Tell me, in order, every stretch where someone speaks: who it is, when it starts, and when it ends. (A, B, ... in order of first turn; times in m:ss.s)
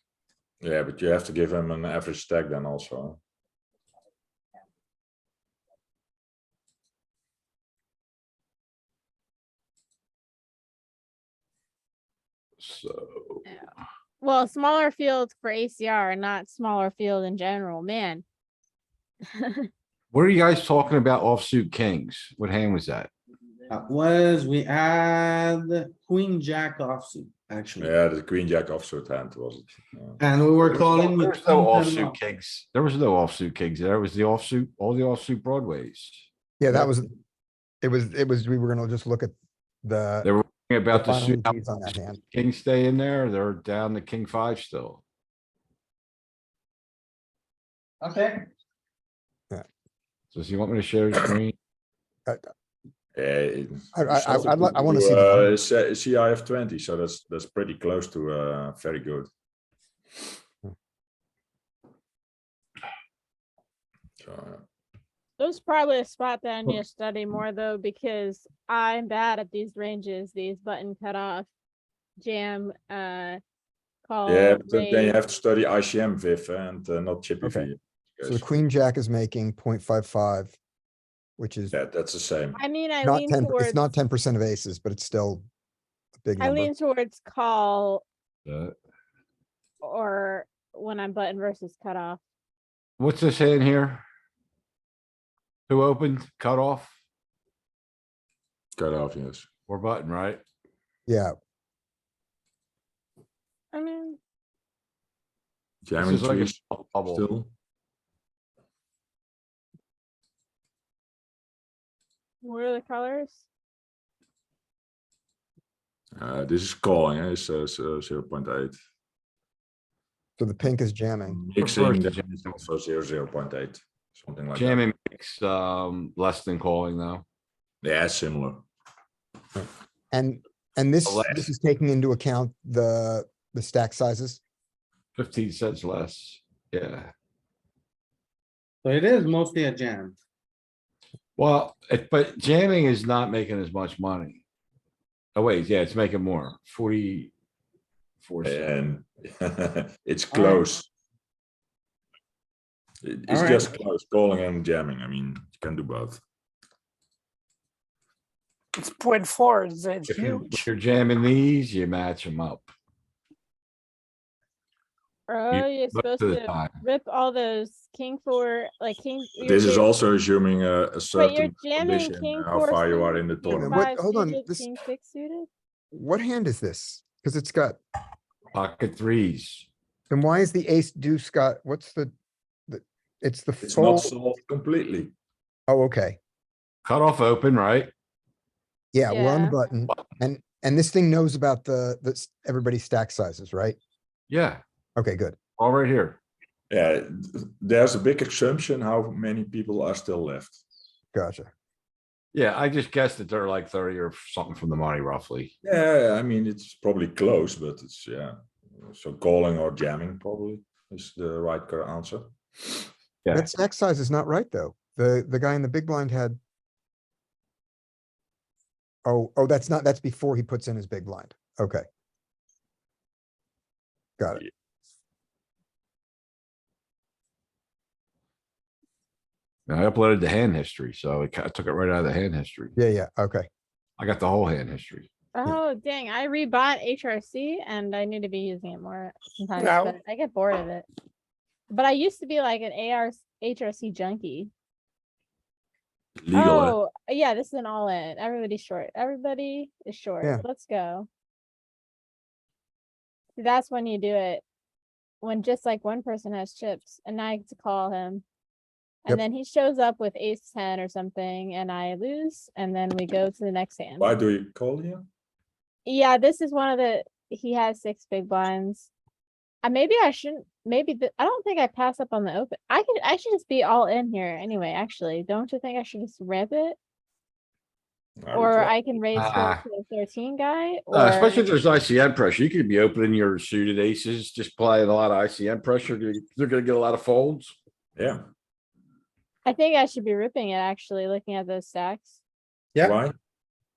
0:00.6-0:03.2 A
0:12.6-0:13.4 B
0:14.2-0:18.2 C
0:19.4-0:19.7 C
0:20.1-0:23.1 B
0:23.7-0:27.9 D
0:27.8-0:30.2 A
0:30.2-0:32.2 D
0:30.6-0:36.2 B
0:36.6-0:37.1 E
0:37.8-0:40.3 E
0:40.2-0:41.6 B
0:40.9-0:42.2 E
0:42.2-0:45.0 B
0:48.0-0:48.5 D
0:50.3-0:51.6 B
0:53.1-0:59.3 A
0:53.9-0:55.5 E
1:04.2-1:04.6 A
1:05.4-1:11.5 C
1:12.2-1:13.4 C
1:14.0-1:15.2 C
1:14.2-1:18.4 A
1:18.2-1:20.6 E
1:21.4-1:21.7 E
1:21.7-1:22.6 A
1:22.6-1:23.8 C
1:23.0-1:25.4 E
1:26.2-1:26.7 E
1:26.4-1:28.0 C
1:28.4-1:28.7 B
1:29.8-1:32.2 C
1:33.0-1:34.0 B
1:35.7-1:36.9 B
1:38.8-1:39.5 A
1:39.7-1:40.4 B
1:41.1-1:41.3 E
1:43.7-1:44.2 C
1:45.8-1:47.5 A
1:46.0-1:47.2 B
1:52.4-1:53.4 C
1:56.2-1:58.8 A
2:00.4-2:01.4 E
2:01.3-2:04.8 A
2:01.6-2:02.6 B
2:04.5-2:07.2 B
2:07.8-2:08.6 A
2:09.6-2:14.4 E
2:11.0-2:11.3 B
2:15.2-2:17.1 B
2:18.8-2:20.2 D
2:21.4-2:24.4 B
2:25.4-2:27.3 B
2:28.2-2:28.6 B
2:28.4-2:30.9 A
2:30.3-2:30.7 D
2:33.0-2:36.2 A
2:33.3-2:33.7 D
2:38.8-2:40.6 F
2:40.1-2:42.7 B
2:45.3-2:49.9 C
2:45.5-2:46.7 B
2:49.4-2:53.8 A
2:51.1-2:55.5 C
2:53.5-2:54.7 E
2:55.9-2:57.8 E
2:58.5-2:59.7 B
3:00.1-3:02.1 E
3:02.7-3:04.1 E
3:03.6-3:05.1 A
3:05.7-3:06.2 E
3:06.8-3:07.9 B
3:08.9-3:13.8 E
3:09.1-3:09.6 C
3:14.3-3:14.6 B
3:15.0-3:15.4 E
3:15.6-3:16.2 B
3:16.7-3:20.6 A
3:21.1-3:21.5 E
3:22.3-3:25.5 B
3:25.6-3:32.9 A
3:33.2-3:33.5 B
3:33.3-3:36.4 E
3:39.0-3:41.8 E
3:44.2-3:44.4 E
3:49.7-3:52.7 B
3:52.8-3:53.5 E
3:54.0-3:55.1 B
3:55.3-4:00.8 C
3:59.6-3:59.9 F
4:01.7-4:04.5 C
4:06.2-4:06.8 A
4:06.3-4:11.1 C
4:13.4-4:14.4 C
4:15.2-4:18.2 C
4:19.0-4:24.1 C
4:24.0-4:25.0 A
4:25.8-4:28.9 C
4:29.6-4:36.8 C
4:38.2-4:38.7 A
4:38.3-4:41.5 C
4:39.1-4:39.6 B
4:40.9-4:47.5 B
4:49.4-4:52.2 C
4:52.8-4:53.2 A